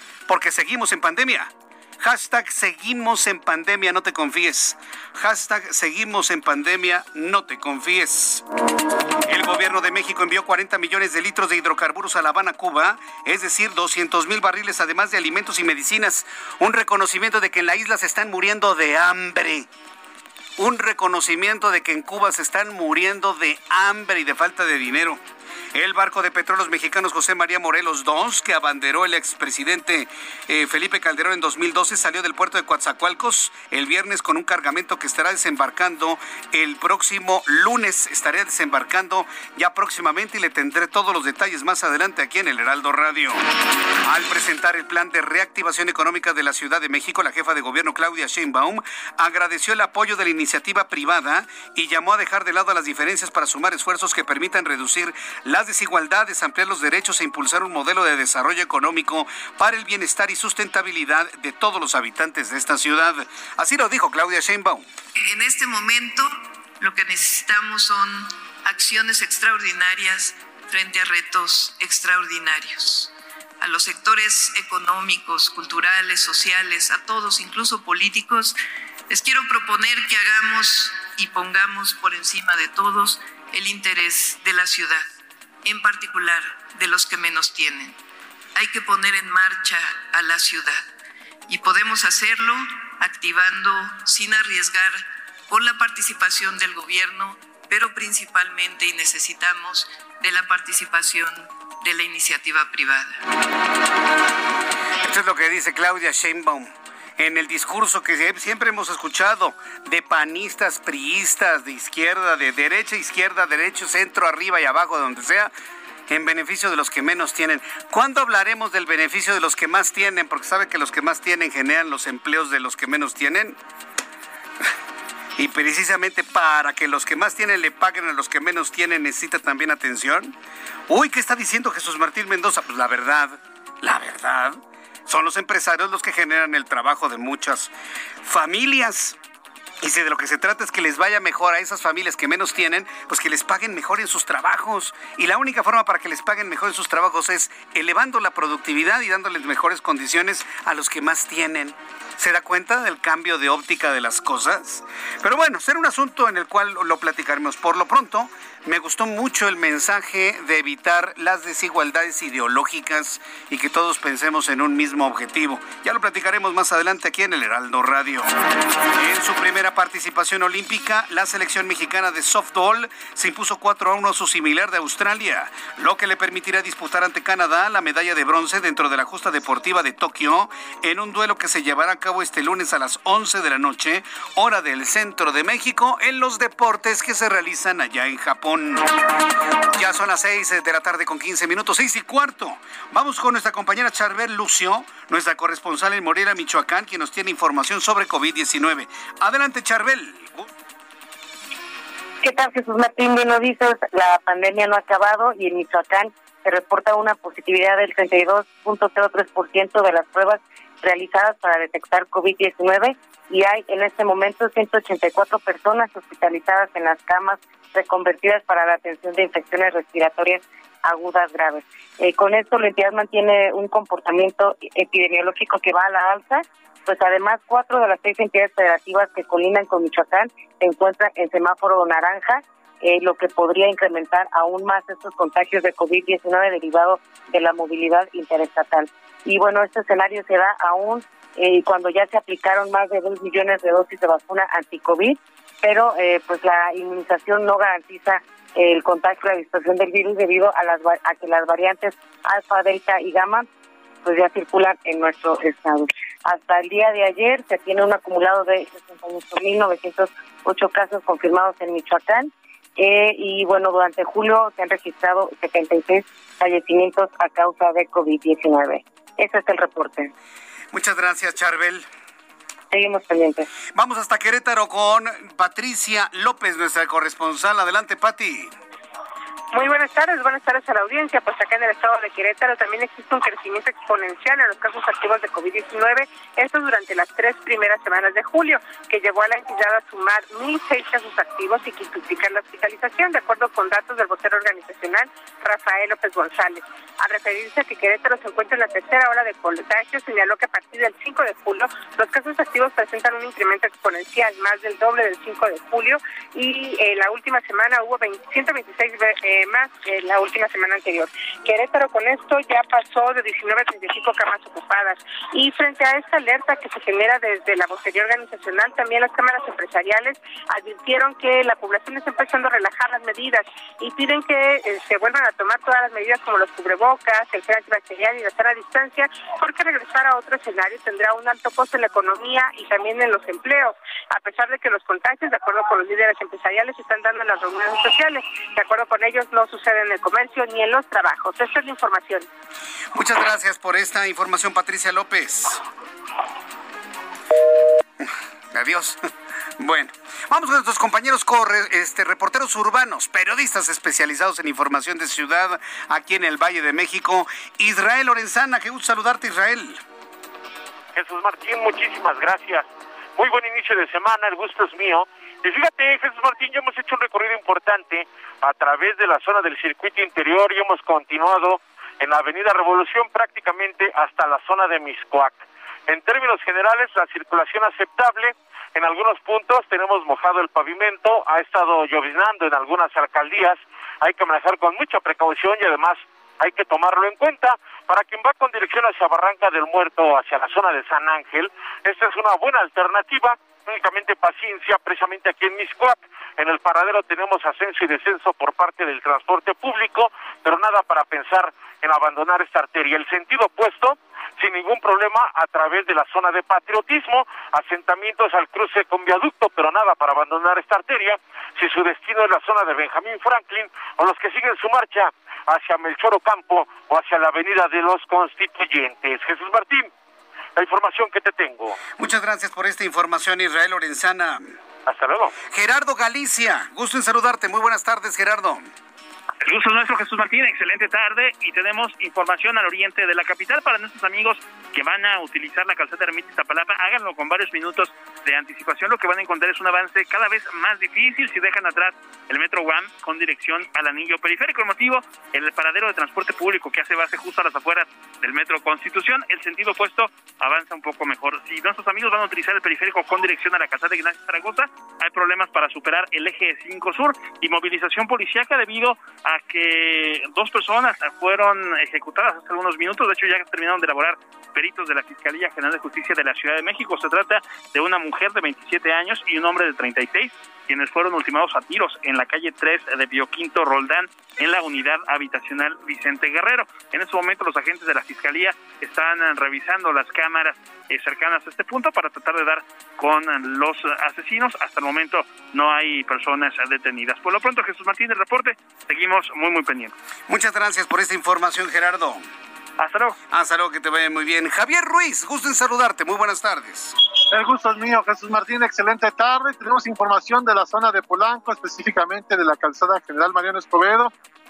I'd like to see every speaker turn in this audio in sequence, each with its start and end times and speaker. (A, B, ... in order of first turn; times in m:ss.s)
0:00.3-0:08.4 A
0:09.3-0:19.7 A
0:20.6-0:25.2 A
0:25.7-0:43.4 A
0:44.0-1:04.9 A
1:05.2-1:18.6 B
1:19.1-1:25.1 B
1:25.6-1:28.0 B
1:28.6-1:30.8 B
1:31.5-1:43.2 B
1:45.0-1:55.5 A
1:56.1-2:03.6 A
2:05.4-2:10.4 A
2:10.9-2:17.7 A
2:18.2-2:19.2 A
2:19.8-2:48.3 A
2:48.9-3:09.0 A
3:09.7-3:20.5 A
3:22.2-4:13.5 C
4:14.0-4:30.1 C
4:30.7-4:31.9 A
4:32.7-4:33.5 C
4:33.8-4:38.5 A
4:39.5-5:42.3 D
5:42.9-5:45.6 A
5:48.0-5:49.1 A
5:49.6-5:59.8 A
6:00.9-6:59.9 E
7:00.6-7:01.8 E
7:02.0-7:04.5 A
7:04.9-7:05.3 E
7:05.5-7:08.7 A
7:09.4-8:10.0 F
8:10.3-8:12.2 A
8:12.8-8:13.2 F
8:13.3-8:17.0 A
8:17.3-8:24.1 G